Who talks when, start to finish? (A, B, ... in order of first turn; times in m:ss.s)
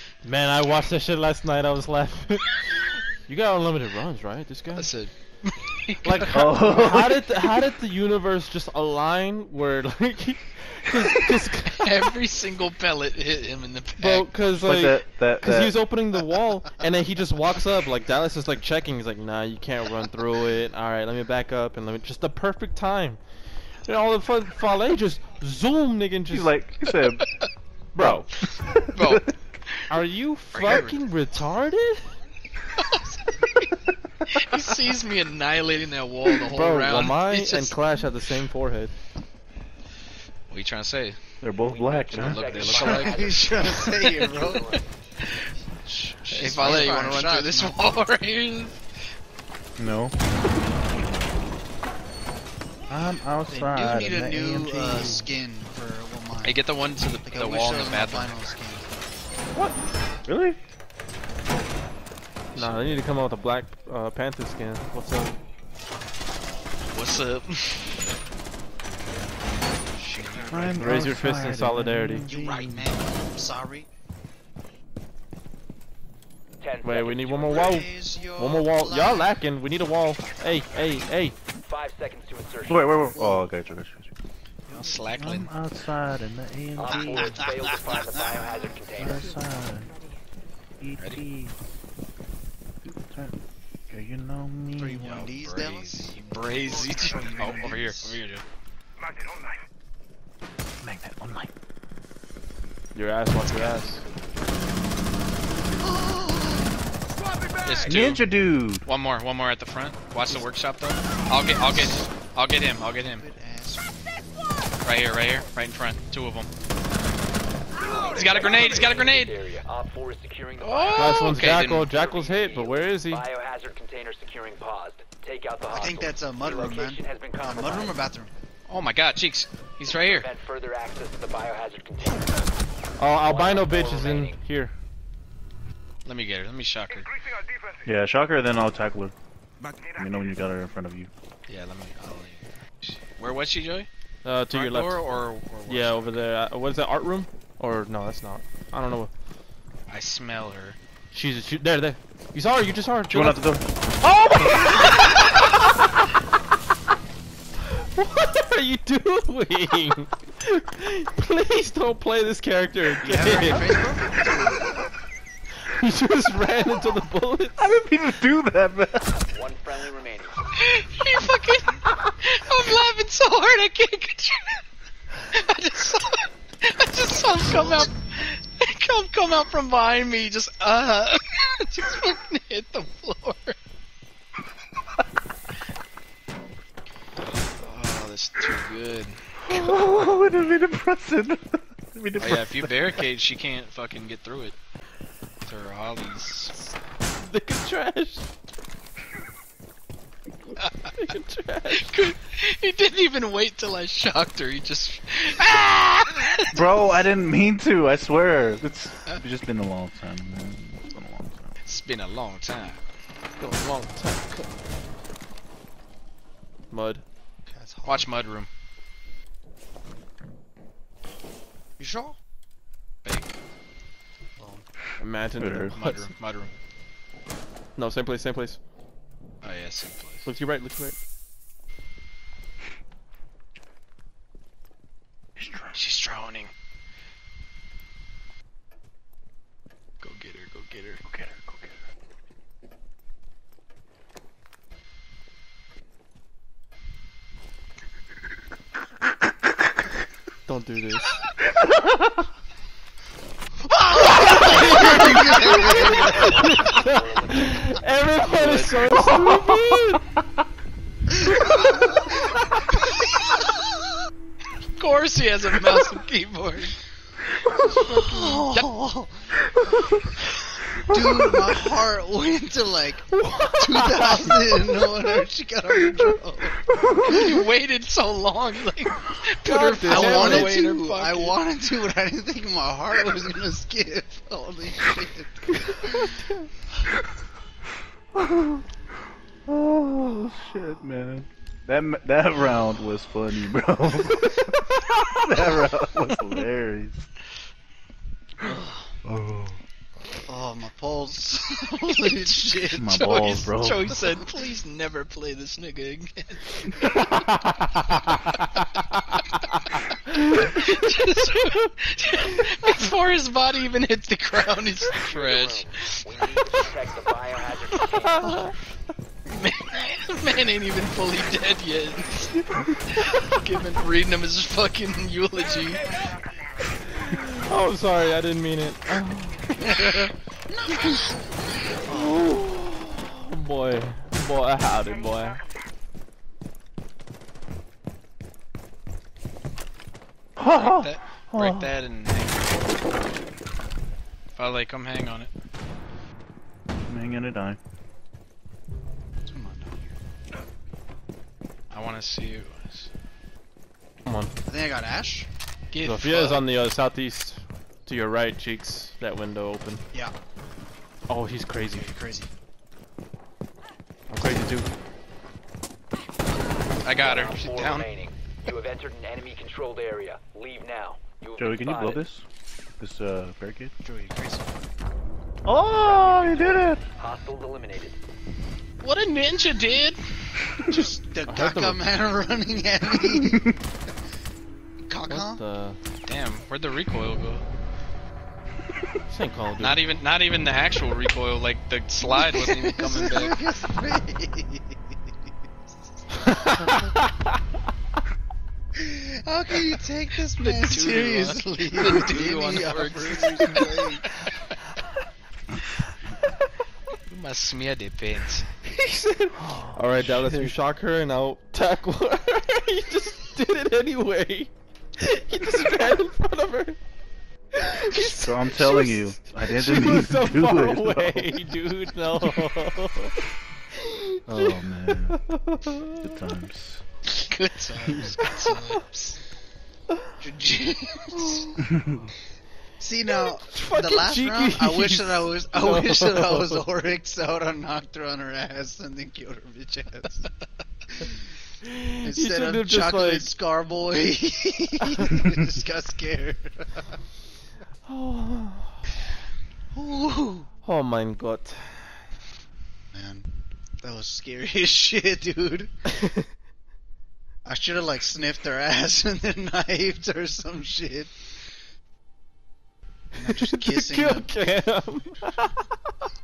0:00.2-0:04.9 A
0:04.8-0:06.5 B
0:06.0-0:11.9 A
0:06.2-0:07.4 C
0:11.7-0:14.3 B
0:14.0-0:23.2 A
0:14.5-0:15.8 C
0:23.8-0:26.5 A
0:26.3-0:27.3 C
0:27.9-0:28.3 A
0:28.0-0:29.3 C
0:28.9-0:29.3 B
0:29.9-0:32.1 A
0:30.5-0:31.0 B
0:32.8-0:33.6 B
0:34.3-0:37.8 B
0:36.5-0:38.9 A
0:40.5-0:41.2 B
0:41.4-0:43.0 C
0:41.6-0:44.8 D
0:42.1-0:45.4 B
0:42.7-0:44.7 E
0:45.9-0:47.9 E
0:46.3-0:48.8 B
0:46.6-0:46.9 C
0:49.8-0:50.2 C
0:52.9-0:55.2 C
0:53.5-0:56.6 E
0:56.4-0:58.4 B
0:57.2-0:58.9 E
1:00.2-1:00.6 C
1:02.5-1:03.0 B
1:02.5-1:05.4 A
1:06.9-1:08.1 B
1:09.9-1:10.9 B
1:10.5-1:12.9 C
1:10.8-1:12.2 A
1:12.2-1:13.9 E
1:12.3-1:12.7 B
1:16.6-1:17.7 D
1:16.8-1:21.3 A
1:17.4-1:19.4 E
1:21.6-1:23.1 D
1:22.7-1:24.1 C
1:23.1-1:23.5 E
1:24.7-1:25.5 B
1:25.1-1:27.4 C
1:26.8-1:29.2 D
1:26.8-1:28.6 E
1:29.0-1:30.0 C
1:30.8-1:31.6 C
1:31.0-1:31.2 B
1:32.8-1:33.4 C
1:33.9-1:35.2 C
1:34.8-1:38.2 E
1:35.0-1:38.4 B
1:40.8-1:41.5 C
1:42.9-1:44.0 A
1:43.4-1:44.0 B
1:45.8-1:46.8 E
1:47.6-1:48.2 B
1:47.8-1:48.9 C
1:48.8-1:53.2 B
1:52.8-1:54.2 E
1:54.8-1:56.5 B
1:57.8-2:08.1 D
1:58.0-1:59.4 B
2:00.6-2:01.9 B
2:00.9-2:03.2 A
2:05.7-2:08.3 E
2:08.7-2:10.3 B
2:10.0-2:12.4 D
2:13.0-2:14.7 A
2:13.1-2:14.4 D
2:16.0-2:17.1 B
2:17.8-2:19.1 C
2:19.9-2:21.1 C
2:21.5-2:23.9 B
2:24.2-2:25.0 A
2:24.5-2:26.2 B
2:25.7-2:29.1 A
2:29.9-2:30.8 B
2:31.1-2:33.4 A
2:33.1-2:34.5 C
2:34.0-2:35.3 A
2:37.7-2:43.8 A
2:43.0-2:44.7 E
2:45.6-2:47.8 A
2:47.6-2:49.2 C
2:49.1-2:50.4 D
2:50.5-2:54.6 B
2:55.2-3:03.6 B
3:07.6-3:09.7 B
3:09.4-3:13.0 C
3:12.2-3:14.5 B
3:15.4-3:16.6 B
3:17.2-3:18.3 A
3:20.6-3:20.9 B
3:21.0-3:22.0 A
3:21.7-3:27.0 B
3:26.5-3:31.5 C
3:31.6-3:32.8 B
3:33.4-3:34.5 A
3:36.7-3:37.0 A
3:37.4-3:38.1 E
3:37.8-3:38.5 B
3:41.8-3:42.2 E
3:43.0-3:43.4 B
3:44.4-3:44.6 E
3:45.0-3:46.1 A
3:45.4-3:45.7 C
3:45.7-3:46.5 B
3:47.8-3:48.6 A
3:49.4-3:50.2 B
3:50.2-3:51.0 A
3:55.4-3:55.8 C
3:55.7-3:56.5 B
4:00.0-4:01.0 B
4:01.1-4:01.8 C
4:10.4-4:11.2 A
4:13.8-4:15.2 B
4:14.0-4:20.0 A
4:14.3-4:16.8 E
4:15.5-4:17.8 D
4:18.2-4:18.9 B
4:24.8-4:26.8 B
4:27.6-4:29.1 E
4:28.2-4:28.7 B
4:30.9-4:37.1 E
4:33.2-4:34.3 A
4:37.0-4:41.4 B
4:39.4-4:40.6 A
4:39.8-4:40.3 C
4:39.9-4:46.1 E
4:48.1-4:48.6 C
4:49.4-4:57.1 C
4:59.0-4:59.6 C
5:00.2-5:03.0 E
5:02.7-5:04.0 C
5:02.9-5:06.4 B
5:06.9-5:08.2 A
5:10.1-5:16.4 B
5:15.0-5:18.5 D
5:18.0-5:18.5 A
5:19.3-5:22.4 B
5:22.9-5:25.9 B
5:27.0-5:29.7 A
5:29.7-5:32.3 E
5:31.9-5:35.4 A
5:40.4-5:41.7 C
5:40.4-5:42.8 B
5:44.4-5:45.3 B
5:46.9-5:47.6 C
5:49.3-5:49.9 E
5:51.7-5:52.9 B
5:54.0-5:54.3 A
5:54.4-5:55.3 E
5:55.7-5:56.4 B
5:55.8-5:59.8 A
6:01.1-6:01.9 A
6:01.5-6:02.3 E
6:04.1-6:04.7 A
6:06.8-6:12.0 D
6:06.8-6:07.9 B
6:11.4-6:12.2 C
6:12.8-6:13.7 C
6:13.8-6:14.6 E
6:15.4-6:16.8 C
6:15.8-6:18.0 D
6:18.8-6:20.0 B
6:20.6-6:23.6 E
6:21.2-6:21.8 A
6:23.0-6:23.4 C
6:24.9-6:25.4 E
6:25.1-6:25.8 A
6:26.0-6:27.4 B
6:29.1-6:29.8 A
6:29.6-6:33.5 B
6:32.0-6:34.9 E
6:36.2-6:36.8 E
6:36.6-6:37.0 A
6:38.8-6:44.1 E
6:40.4-6:44.3 B
6:47.0-6:48.5 B
6:48.6-6:56.8 A
6:49.4-6:49.7 C
6:57.6-7:03.1 A
6:57.9-7:01.5 C
7:03.8-7:06.0 A
7:04.3-7:05.2 C
7:06.0-7:06.8 C
7:07.1-7:09.2 B
7:07.9-7:08.1 C
7:10.2-7:11.6 E
7:11.6-7:12.1 C
7:12.8-7:20.3 E
7:13.1-7:16.6 A
7:21.6-7:23.3 A
7:22.0-7:26.9 E
7:27.8-7:28.8 A
7:29.7-7:30.5 E
7:30.6-7:31.9 A
7:32.9-7:35.7 E
7:37.4-7:41.2 E
7:43.2-7:44.3 E
7:43.5-7:45.7 A